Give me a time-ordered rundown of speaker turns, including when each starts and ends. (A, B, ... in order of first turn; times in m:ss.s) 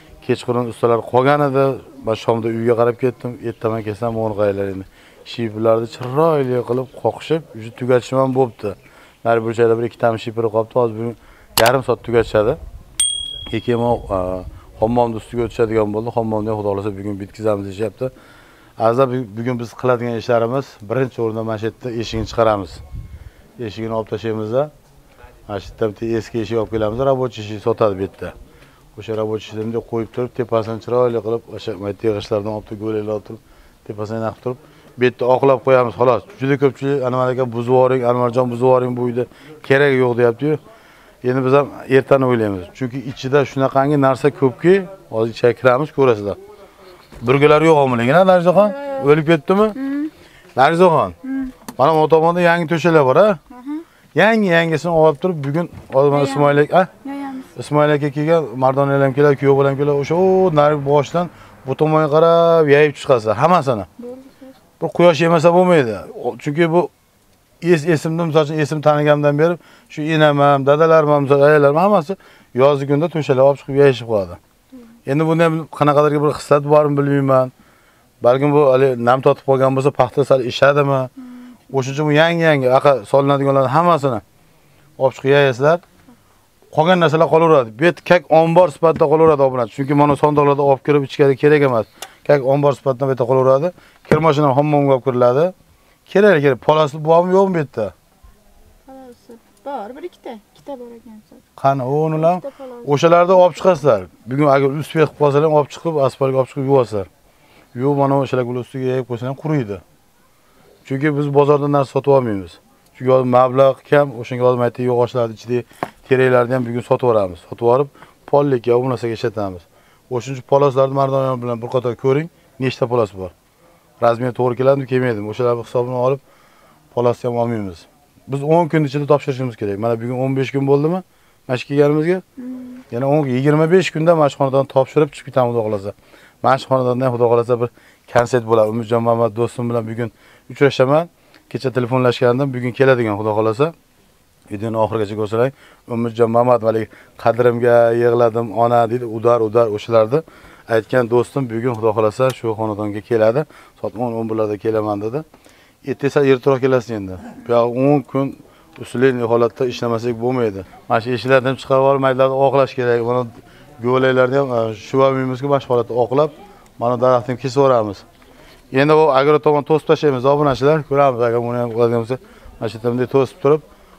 0:00.2-0:12.6 A
0:13.5-0:18.1 A
0:18.8-0:22.8 A
0:23.6-0:24.7 A
0:25.5-0:28.3 A
0:29.0-0:40.6 A
0:41.2-0:46.4 A
0:47.2-0:49.8 A
0:48.5-0:49.1 B
0:49.7-0:50.1 B
0:50.6-0:51.1 A
0:51.2-0:51.5 B
0:51.8-0:53.4 A
0:53.5-0:53.8 B
0:54.1-0:56.9 A
0:56.1-0:57.5 B
0:57.5-1:03.9 A
1:04.0-1:04.5 B
1:04.8-1:06.9 A
1:07.6-1:14.4 A
1:15.0-1:17.5 A
1:18.2-1:21.1 A
1:21.7-1:24.2 A
1:25.0-1:25.8 A
1:26.7-1:35.5 A
1:36.1-1:37.9 A
1:38.9-1:41.4 B
1:41.6-1:47.1 A
1:42.1-1:43.5 B
1:47.7-1:49.8 A
1:50.8-2:03.3 A
2:04.0-2:06.2 A
2:06.9-2:12.2 A
2:12.4-2:12.8 B
2:12.9-2:23.7 A
2:24.5-2:35.2 A
2:35.8-2:48.0 A
2:48.7-2:53.6 A